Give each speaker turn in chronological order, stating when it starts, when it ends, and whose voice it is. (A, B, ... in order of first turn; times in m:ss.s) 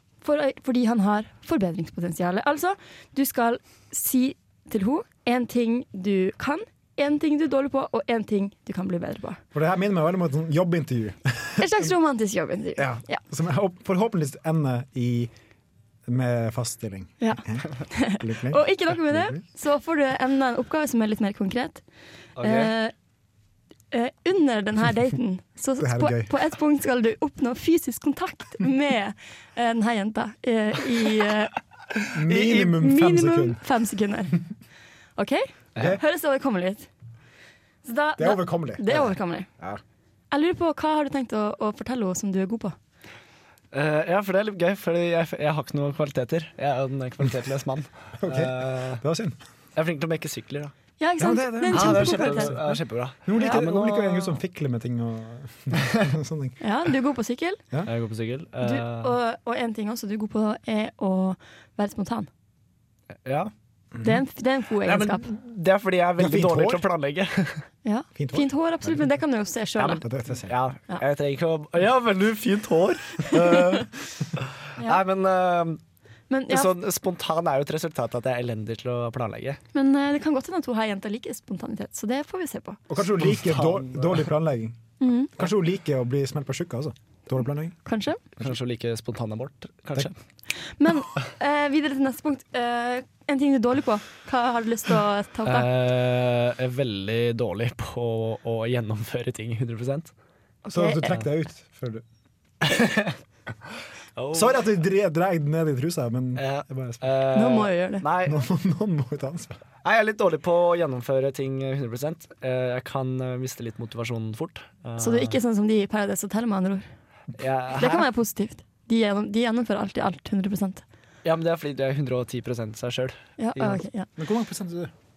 0:00.2-0:09.4 A
0:09.5-0:11.9 B
0:11.6-0:13.2 A
0:12.8-0:15.3 B
0:16.1-0:19.4 B
0:17.2-0:21.8 A
0:22.4-0:22.7 C
0:22.4-0:22.9 A
0:23.9-0:31.5 A
0:25.8-0:26.3 B
0:32.1-0:33.6 B
0:32.3-0:32.5 C
0:32.5-0:34.4 A
0:35.2-0:36.9 A
0:35.8-0:36.0 B
0:37.8-0:39.5 A
0:38.2-0:39.8 B
0:40.3-0:42.7 A
0:43.7-0:49.0 C
0:48.2-0:49.4 B
0:49.8-0:50.7 C
0:51.0-0:52.6 A
0:51.2-0:56.6 B
0:51.7-0:54.4 C
0:56.6-0:57.6 A
0:57.8-0:59.1 C
0:58.6-1:02.3 A
1:03.2-1:03.5 C
1:04.0-1:04.2 B
1:04.0-1:05.3 A
1:04.8-1:07.6 C
1:06.2-1:06.9 B
1:07.8-1:10.0 A
1:08.2-1:09.1 B
1:09.8-1:15.8 C
1:10.0-1:10.6 B
1:16.3-1:16.7 A
1:16.5-1:19.6 C
1:19.7-1:22.8 A
1:22.9-1:24.8 B
1:23.0-1:24.3 C
1:25.0-1:25.3 A
1:25.3-1:27.8 B
1:27.8-1:28.2 A
1:28.4-1:30.2 C
1:30.7-1:35.7 A
1:35.4-1:40.1 C
1:40.7-1:41.2 A
1:40.7-1:42.0 B
1:42.6-1:43.1 C
1:44.2-1:44.6 C
1:44.3-1:47.0 B
1:46.4-1:48.4 C
1:47.3-1:48.0 A
1:48.2-1:49.6 B
1:49.8-1:55.4 C
1:55.0-1:56.9 A
1:57.4-1:58.1 C
1:57.8-2:00.8 A
2:01.2-2:03.8 C
2:03.4-2:04.1 A
2:04.2-2:04.9 B